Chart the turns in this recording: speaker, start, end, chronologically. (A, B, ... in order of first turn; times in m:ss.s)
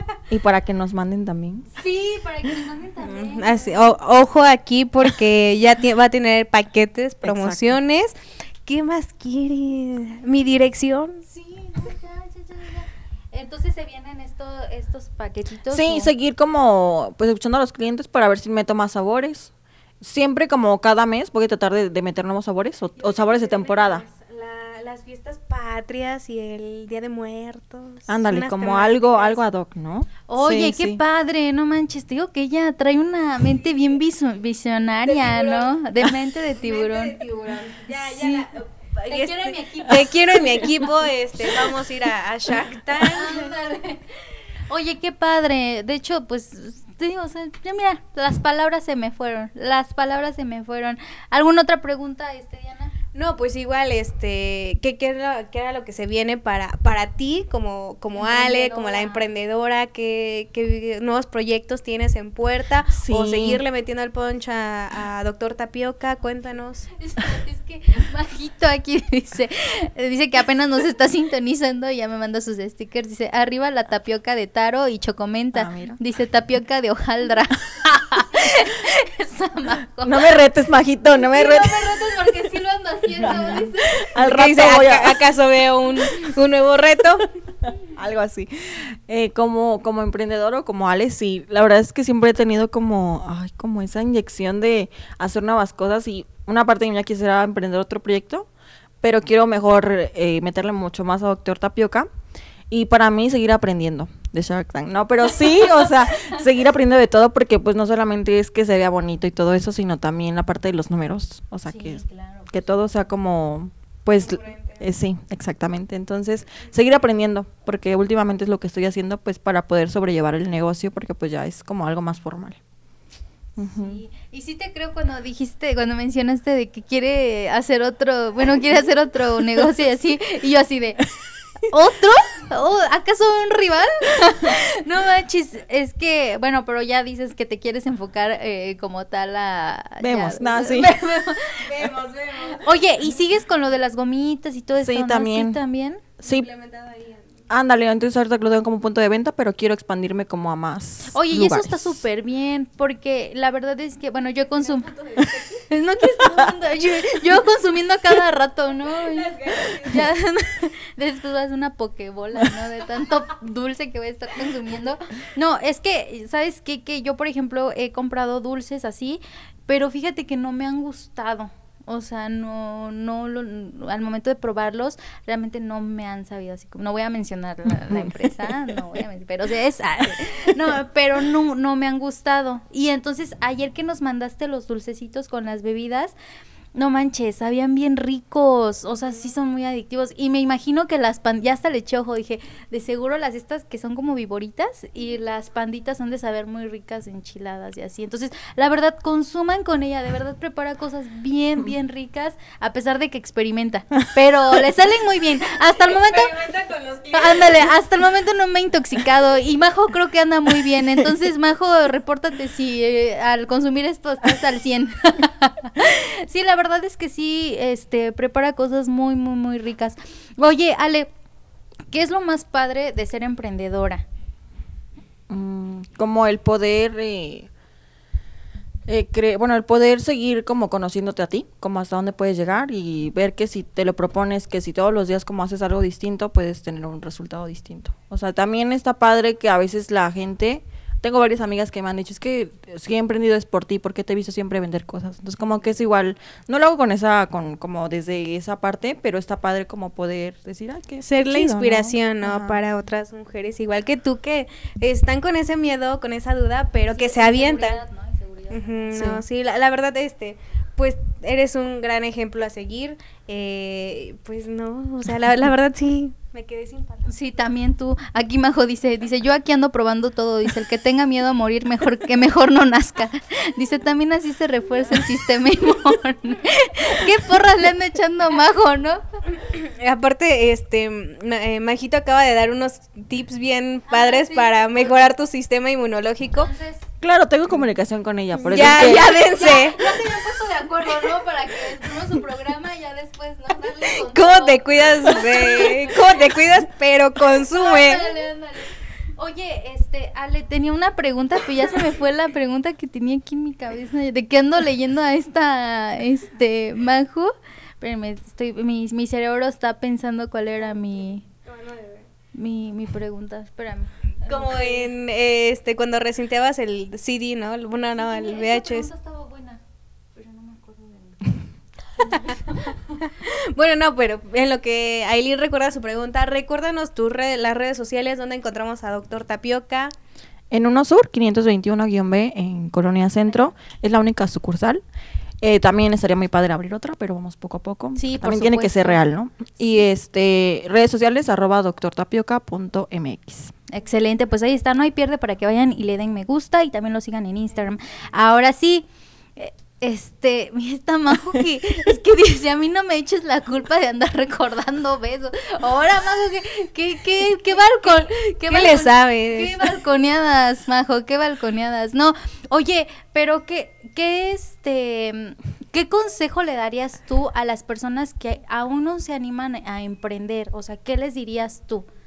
0:00.3-0:01.7 A
0:01.7-0:04.0 B
0:03.0-0:11.2 C
0:07.2-0:07.8 A
0:11.3-0:16.1 B
0:15.7-0:24.0 A
0:23.0-0:29.4 C
0:28.1-0:31.0 A
0:30.3-0:37.2 B
0:35.0-0:35.8 C
0:36.5-0:43.6 C
0:37.8-0:38.5 B
0:39.1-0:40.9 B
0:43.0-0:52.9 B
0:53.1-1:06.9 C
0:58.2-0:59.2 B
1:03.0-1:03.6 A
1:07.0-1:20.4 B
1:15.5-1:16.0 A
1:20.0-1:21.9 A
1:21.1-1:24.1 B
1:23.2-1:25.2 A
1:24.2-1:27.3 C
1:27.8-1:38.5 A
1:39.0-1:42.1 A
1:42.7-2:02.6 A
1:45.6-1:46.4 B
1:51.7-1:52.6 B
1:54.2-1:54.9 C
2:03.6-2:04.0 A
2:03.6-2:11.0 B
2:11.7-2:21.8 B
2:20.0-2:21.0 A
2:21.6-2:22.7 C
2:22.5-2:26.0 B
2:24.8-2:25.6 A
2:26.2-2:27.4 C
2:26.2-2:26.5 A
2:27.5-2:32.0 A
2:31.1-2:34.9 B
2:34.6-2:35.6 C
2:35.6-3:06.1 B
2:36.2-2:36.5 A
2:38.9-2:40.1 C
2:57.7-2:58.8 A
3:06.8-3:26.4 B
3:25.7-3:27.7 C
3:27.1-3:41.1 B
3:41.9-3:44.0 B
3:45.3-3:47.5 A
3:48.9-4:12.6 A
4:11.0-4:17.8 C
4:16.8-4:19.1 B
4:18.5-4:27.2 C
4:19.0-4:19.2 A
4:27.1-4:39.0 B
4:39.4-4:46.5 C
4:43.9-4:45.0 B
4:46.4-4:46.8 B
4:47.0-4:49.1 A
4:48.4-4:56.2 B
4:48.5-4:50.0 C
4:53.9-4:58.2 C
4:57.5-5:11.2 B
5:10.6-5:12.1 C
5:12.4-5:14.9 B
5:14.2-5:18.9 C
5:18.0-5:19.6 B
5:20.2-5:21.4 B
5:22.0-5:23.0 B
5:22.1-5:22.4 C
5:23.0-5:29.9 C
5:30.5-5:34.8 A
5:35.4-5:43.5 A
5:38.0-5:39.0 B
5:43.7-5:48.9 B
5:49.4-6:11.9 B
5:57.8-5:59.6 C